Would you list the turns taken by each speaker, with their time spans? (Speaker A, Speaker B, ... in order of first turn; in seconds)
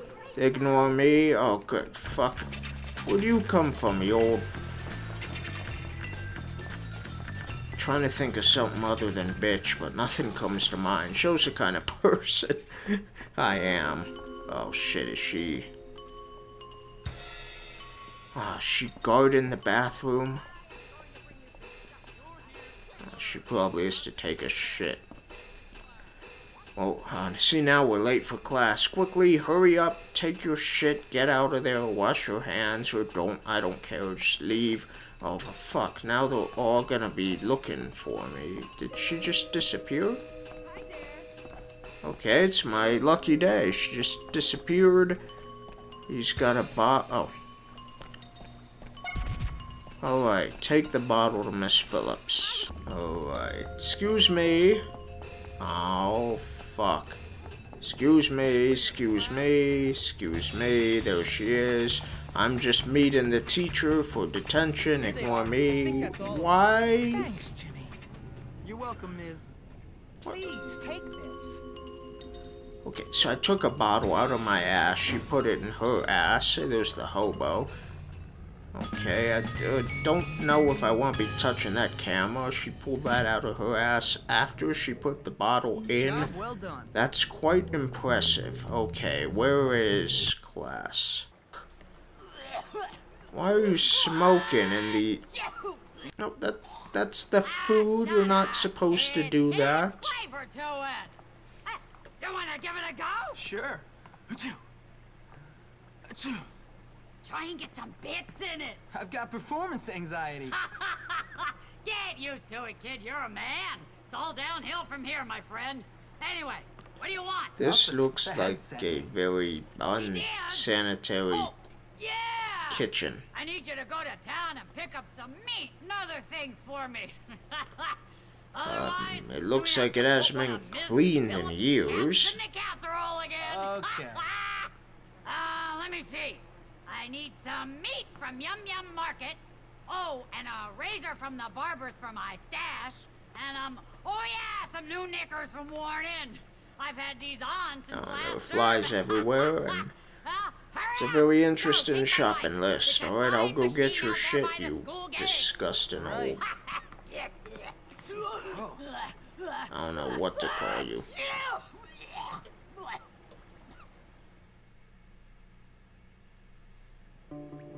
Speaker A: 0.4-2.5, 3.0-4.5, 7.8-15.7, 18.3-20.4, 23.0-25.0, 26.8-40.2, 42.0-45.2, 46.1-47.3, 50.0-54.9, 55.6-57.2, 57.8-67.3, 72.8-77.7, 78.7-86.3, 86.9-91.3, 93.3-95.2, 96.2-100.2, 117.6-121.5, 122.7-123.3, 128.6-132.4, 147.9-149.9, 150.9-156.4, 159.7-161.1
Speaker B: 40.7-41.2, 92.5-92.8, 93.6-95.8, 97.4-101.1, 101.7-103.4, 107.2-108.8, 110.5-117.5, 119.9-120.7, 121.3-128.0, 128.5-134.7, 135.2-155.5, 156.5-162.9
Speaker C: 65.0-68.0, 68.6-69.6, 70.2-71.6, 85.9-86.9, 103.3-104.6, 106.1-106.5, 108.9-110.5, 117.6-119.1, 133.4-134.2, 156.0-156.4, 158.1-159.0